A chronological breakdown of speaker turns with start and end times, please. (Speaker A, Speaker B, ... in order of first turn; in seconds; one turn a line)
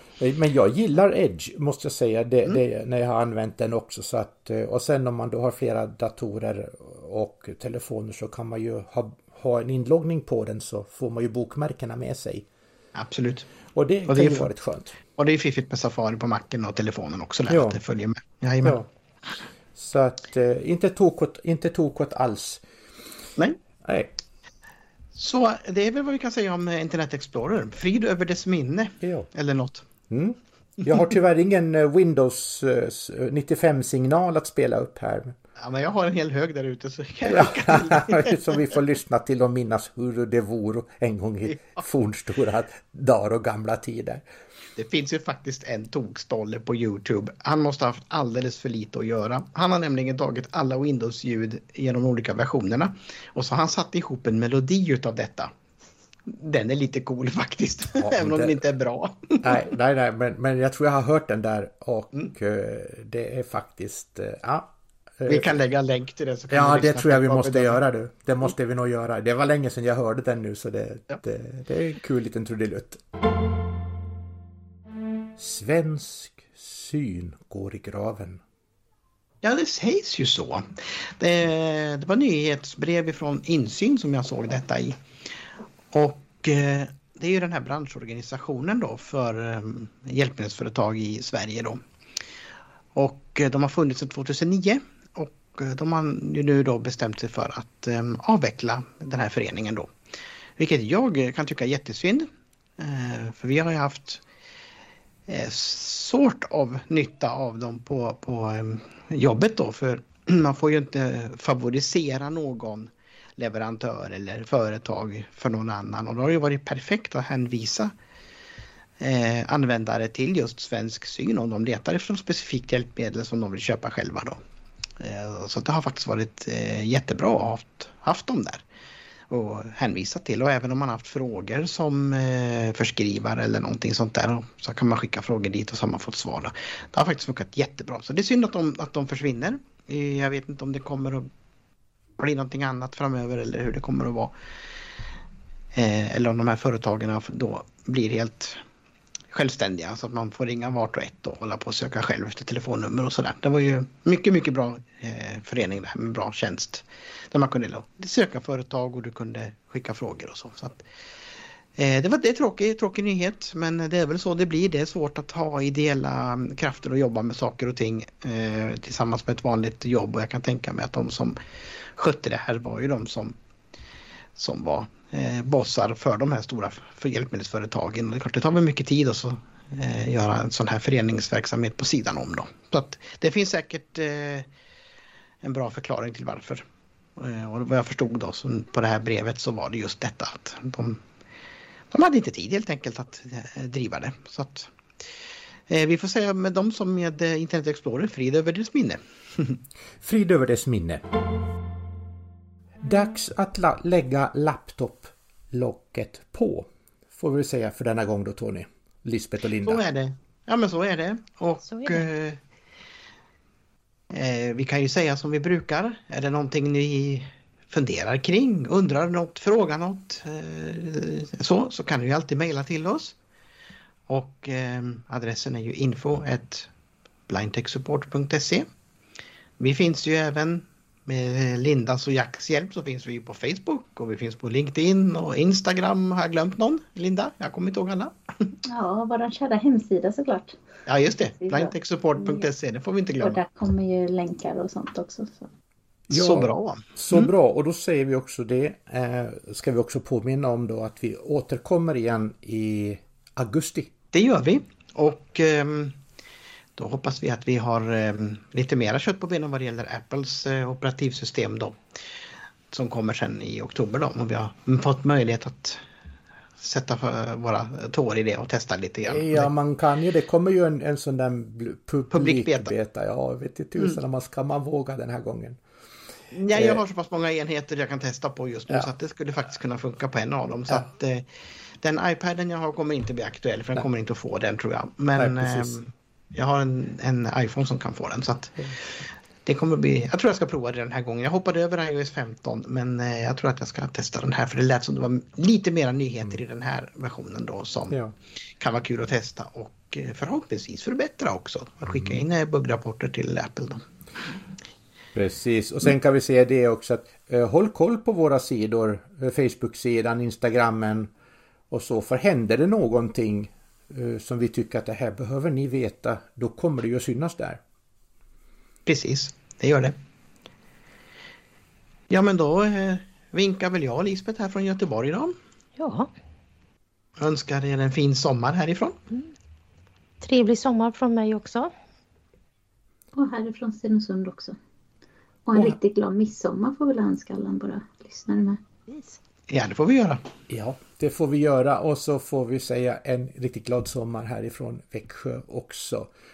Speaker A: 0.2-12.5
Speaker B: 12.9-13.5
Speaker A: 13.8-15.0
Speaker B: 14.1-14.5
Speaker B: 15.2-18.8
Speaker A: 17.5-17.8
Speaker A: 19.8-22.6
Speaker A: 23.8-24.1
Speaker B: 25.1-29.9
Speaker A: 29.0-29.3
Speaker A: 30.1-35.4
Speaker B: 35.6-38.4
Speaker A: 37.3-44.2
Speaker B: 44.8-55.5
Speaker B: 56.3-59.6
Speaker A: 58.0-58.6
Speaker A: 59.4-65.6
Speaker B: 65.3-67.8
Speaker A: 66.5-73.0
Speaker A: 75.4-78.4
Speaker B: 79.4-85.0
Speaker B: 85.9-91.8
Speaker B: 93.0-99.9
Speaker B: 100.6-104.2
Speaker B: 105.3-117.9
Speaker B: 119.0-124.4
Speaker B: 125.0-128.7
Speaker B: 129.3-141.3
Speaker B: 142.2-144.3
Speaker B: 145.7-148.6
Speaker B: 149.3-160.8
Speaker B: 161.8-173.3
Speaker B: 174.4-184.5
Speaker B: 185.4-186.6
Speaker B: 187.2-191.0
Speaker B: 191.9-194.7
Speaker B: 195.7-199.6
Speaker A: 200.0-201.0
Speaker A: 202.8-209.8
Speaker B: 209.6-212.4
Speaker C: 211.7-212.1
Speaker B: 214.1-223.2
Speaker B: 224.1-226.7
Speaker B: 227.3-228.7
Speaker B: 229.6-238.5
Speaker D: 238.7-240.6
Speaker B: 240.9-243.4
Speaker D: 241.4-242.5
Speaker D: 243.2-245.5
Speaker A: 246.1-253.9
Speaker B: 246.1-247.3
Speaker B: 254.1-256.0
Speaker B: 256.8-261.8
Speaker B: 262.7-265.8
Speaker B: 266.6-269.5
Speaker A: 269.1-275.6
Speaker B: 272.1-272.7
Speaker B: 276.3-281.3
Speaker A: 276.5-276.8
Speaker B: 281.8-298.0
Speaker A: 285.2-285.8
Speaker B: 298.6-303.8
Speaker A: 305.1-311.1
Speaker A: 311.7-317.6
Speaker B: 318.9-320.0
Speaker B: 322.1-325.4
Speaker C: 325.8-326.1
Speaker B: 327.2-329.0
Speaker C: 330.2-331.7
Speaker D: 333.1-334.6
Speaker D: 335.5-338.6
Speaker C: 338.9-339.2
Speaker B: 339.5-340.2
Speaker A: 340.5-346.1